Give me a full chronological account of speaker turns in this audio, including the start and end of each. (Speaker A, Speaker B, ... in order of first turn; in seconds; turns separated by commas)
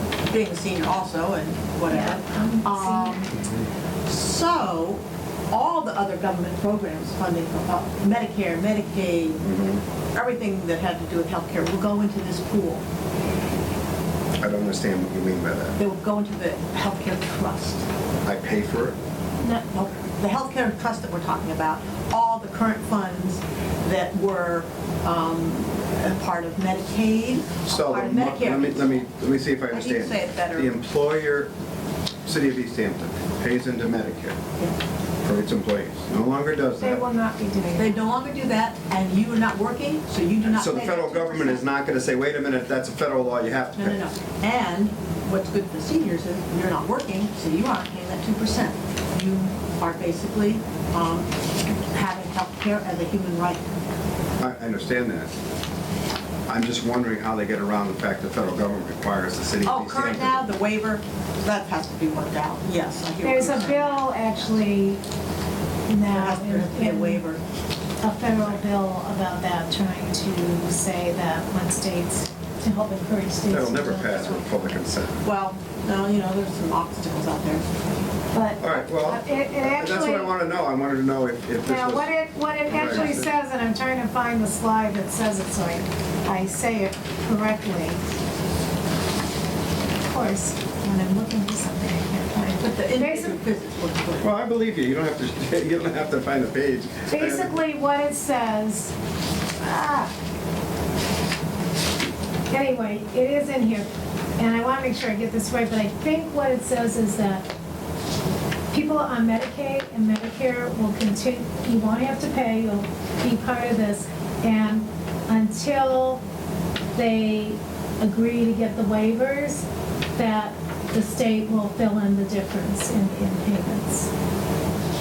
Speaker A: 0.3-3.3, Speaker B: 1.9-3.2, Speaker A: 4.1-9.4, Speaker C: 9.4-9.8, Speaker A: 10.1-12.8, Speaker C: 14.4-15.8, Speaker A: 15.8-17.9, Speaker C: 18.2-19.0, Speaker A: 19.7-29.1, Speaker C: 27.7-31.5, Speaker A: 29.7-30.7, Speaker C: 32.2-34.4, Speaker C: 35.2-37.0, Speaker B: 36.8-38.0, Speaker A: 37.7-41.7, Speaker C: 40.5-44.0, Speaker A: 43.8-51.3, Speaker A: 51.9-53.6, Speaker C: 54.4-55.3, Speaker C: 56.5-60.5, Speaker A: 59.6-64.1, Speaker B: 63.2-65.0, Speaker B: 65.9-67.3, Speaker A: 66.1-67.4, Speaker B: 68.0-74.5, Speaker C: 73.5-75.3, Speaker A: 75.2-77.7, Speaker B: 78.3-80.3, Speaker C: 78.6-83.3, Speaker B: 81.6-88.0, Speaker A: 82.8-83.1, Speaker B: 90.1-93.4, Speaker A: 92.6-94.3, Speaker C: 94.2-97.6, Speaker B: 97.1-98.9, Speaker B: 99.6-100.1, Speaker B: 102.5-107.5, Speaker B: 108.7-116.2, Speaker B: 117.0-119.7, Speaker B: 120.2-124.1